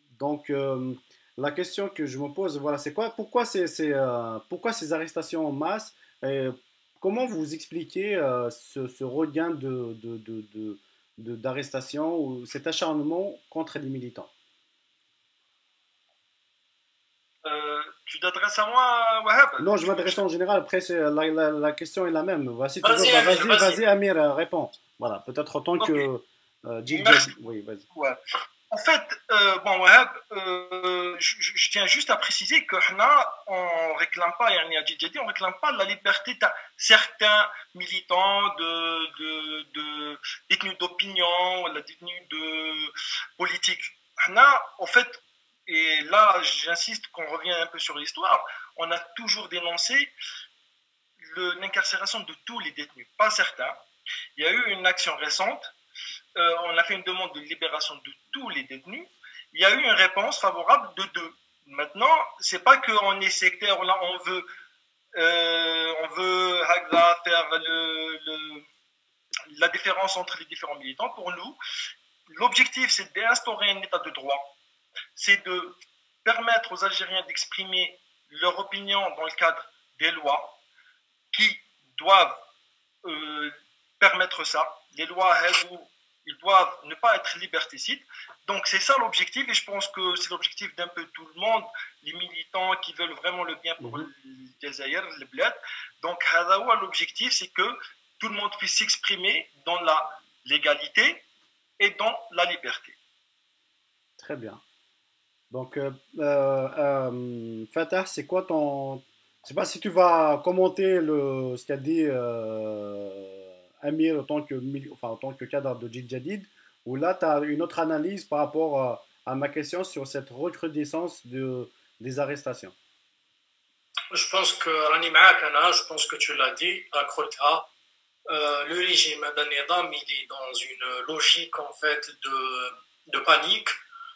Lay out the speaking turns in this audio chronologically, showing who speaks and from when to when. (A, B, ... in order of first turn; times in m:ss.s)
0:00.1-0:14.3 A
0:17.4-0:20.2 B
0:19.6-0:27.8 A
0:22.8-0:23.8 C
0:25.8-0:26.1 B
0:26.9-0:27.3 B
0:27.9-0:50.1 B
0:51.2-0:53.8 B
0:54.4-0:55.7 B
0:56.4-1:04.5 B
1:05.1-1:08.6 B
1:09.5-1:11.6 B
1:12.3-1:14.5 B
1:15.1-1:20.6 B
1:21.3-1:22.4 B
1:23.0-1:41.2 B
1:41.8-1:43.0 B
1:44.2-1:44.6 A
1:45.5-2:02.7 A
2:04.1-2:07.7 C
2:08.3-2:13.7 C